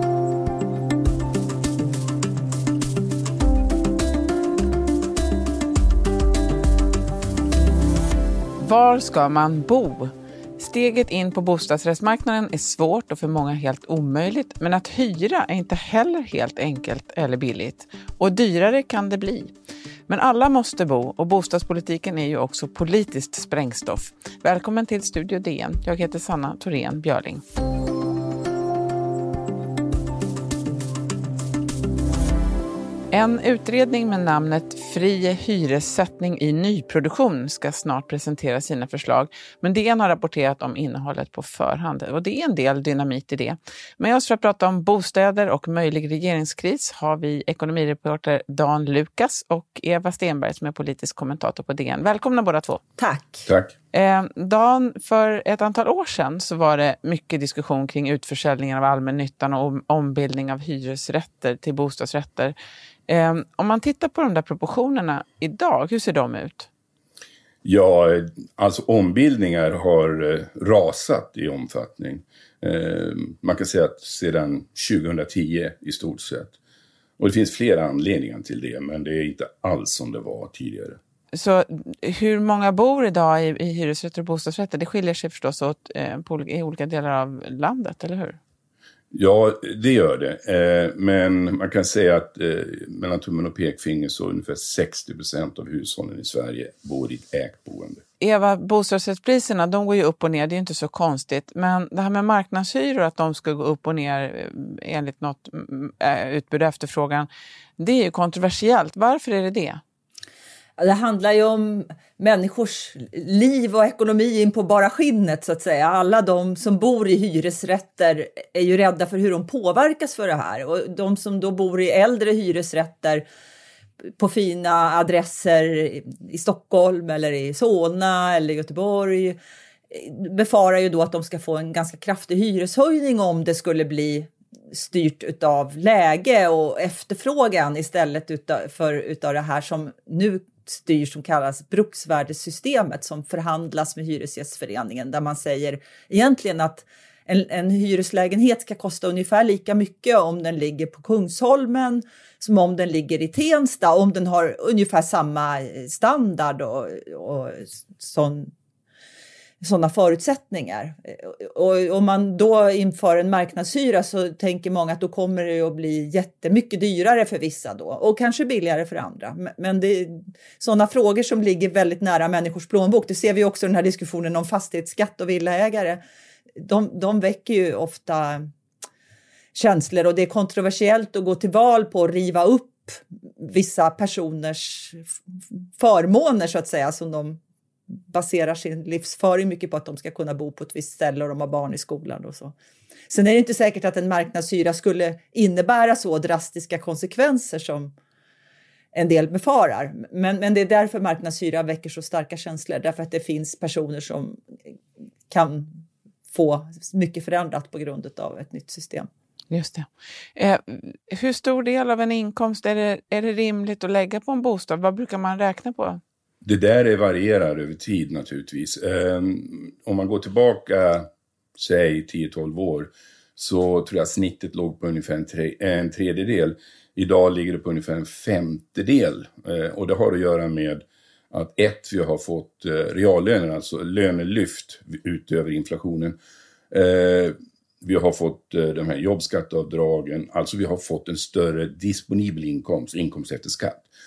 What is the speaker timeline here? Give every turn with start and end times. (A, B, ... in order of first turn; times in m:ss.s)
0:08.6-0:19.5 A
0:20.1-0:27.4 A
0:33.1-0:52.8 A
0:53.0-0:53.5 B
0:53.5-0:53.8 C
0:53.9-1:02.5 A
1:03.1-1:06.7 A
1:07.6-1:16.6 C
1:17.2-1:21.0 C
1:21.3-1:28.4 A
1:29.1-1:38.0 C
1:38.2-1:49.8 A
1:50.8-2:03.2 B
2:04.2-2:09.4 B
2:09.9-2:38.5 B
2:39.6-2:56.0 B
2:56.6-2:58.5 B
2:59.5-3:05.1 B
3:05.8-3:07.4 B
3:07.9-3:12.5 B
3:13.1-3:17.9 B
3:18.9-3:24.4 B
3:25.3-3:29.1 B
3:29.5-3:36.0 A
3:36.4-3:56.2 C
3:56.7-4:03.9 C